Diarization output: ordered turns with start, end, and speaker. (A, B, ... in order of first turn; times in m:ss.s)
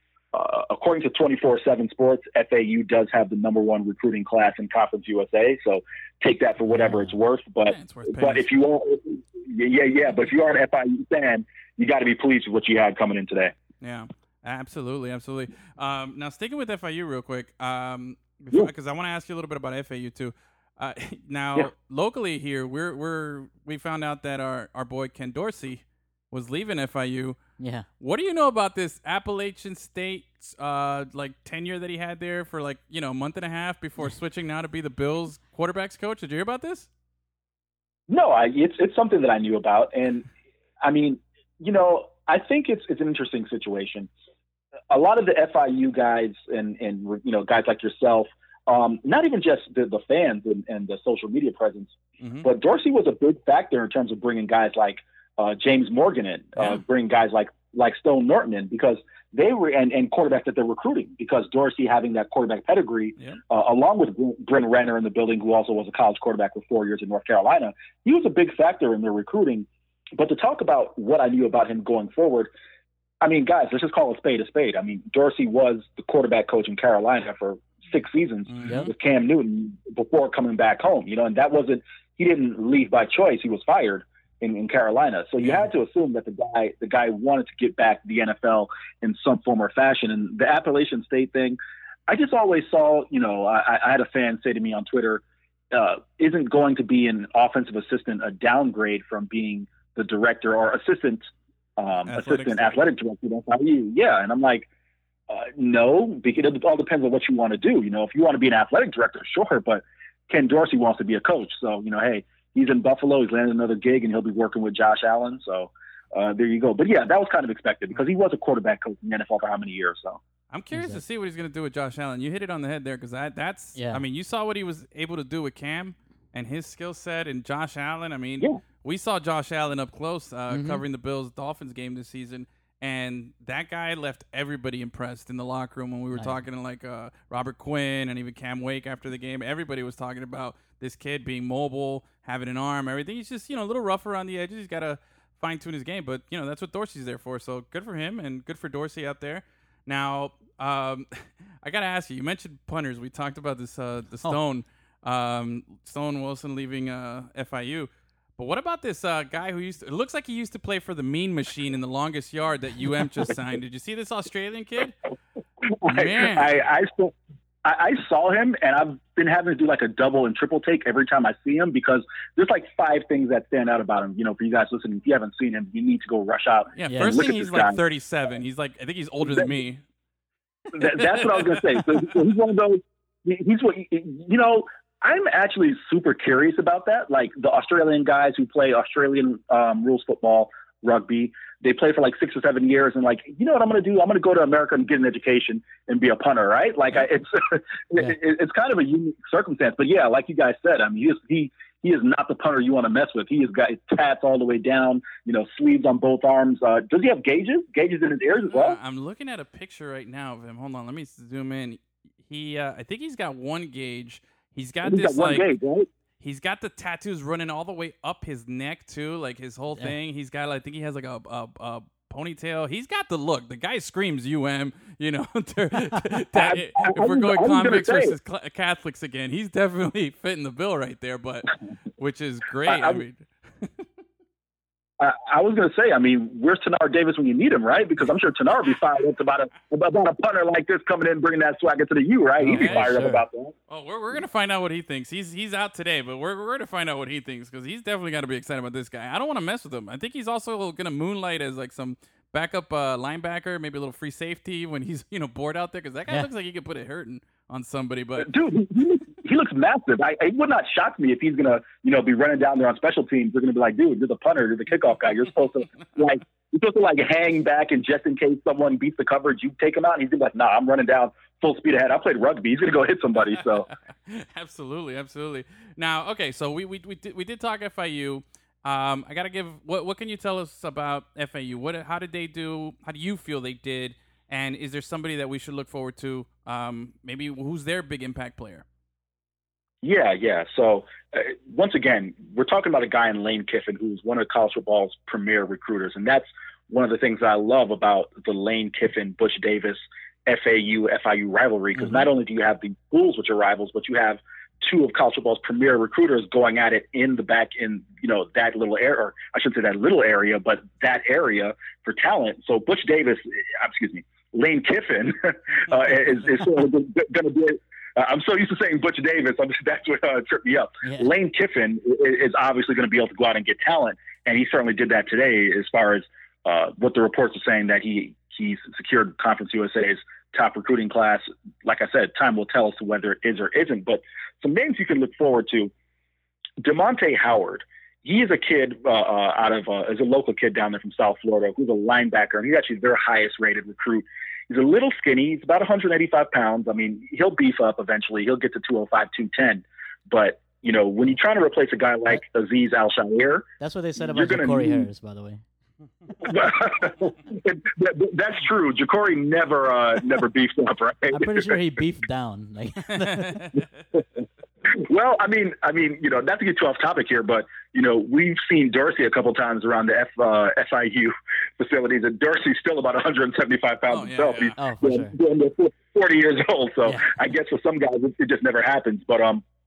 0:00.3-0:13.5 A
0:07.7-0:08.5 B
0:13.8-0:27.4 B
0:27.6-0:27.8 C
0:28.0-0:36.9 B
0:38.1-0:40.3 A
0:40.8-0:44.1 A
0:44.9-1:12.5 A
0:52.2-0:52.4 B
0:56.6-0:56.8 B
1:13.2-1:41.2 A
1:18.5-1:18.8 B
1:18.6-1:18.9 C
1:41.8-1:44.7 A
1:42.0-1:42.8 B
1:45.3-2:00.2 A
2:00.5-2:44.9 B
2:00.7-2:01.0 C
2:03.7-2:04.0 C
2:10.5-2:10.8 C
2:45.7-2:57.8 A
2:45.8-2:46.6 B
2:56.8-2:59.8 B
2:56.9-2:57.2 C
2:59.2-2:59.5 A
3:00.7-3:28.8 A
3:01.3-3:01.8 B
3:28.4-3:35.5 B
3:34.8-3:35.9 A
3:36.2-3:53.8 B
3:46.3-3:48.1 A
3:52.6-3:53.0 A
3:55.0-4:03.5 A
4:02.4-4:03.2 C
4:02.5-4:02.9 B
4:03.7-4:18.3 B
4:18.2-4:33.7 A
4:34.0-4:48.6 B
4:49.8-5:35.7 A
5:20.8-5:21.1 C
5:36.6-5:53.5 A
5:53.6-5:55.4 C
5:54.0-5:54.9 A
5:56.2-6:01.5 A
6:01.1-6:03.5 C
6:03.0-6:03.6 B
6:04.6-6:19.4 A
6:13.9-6:14.5 B
6:14.6-6:15.1 C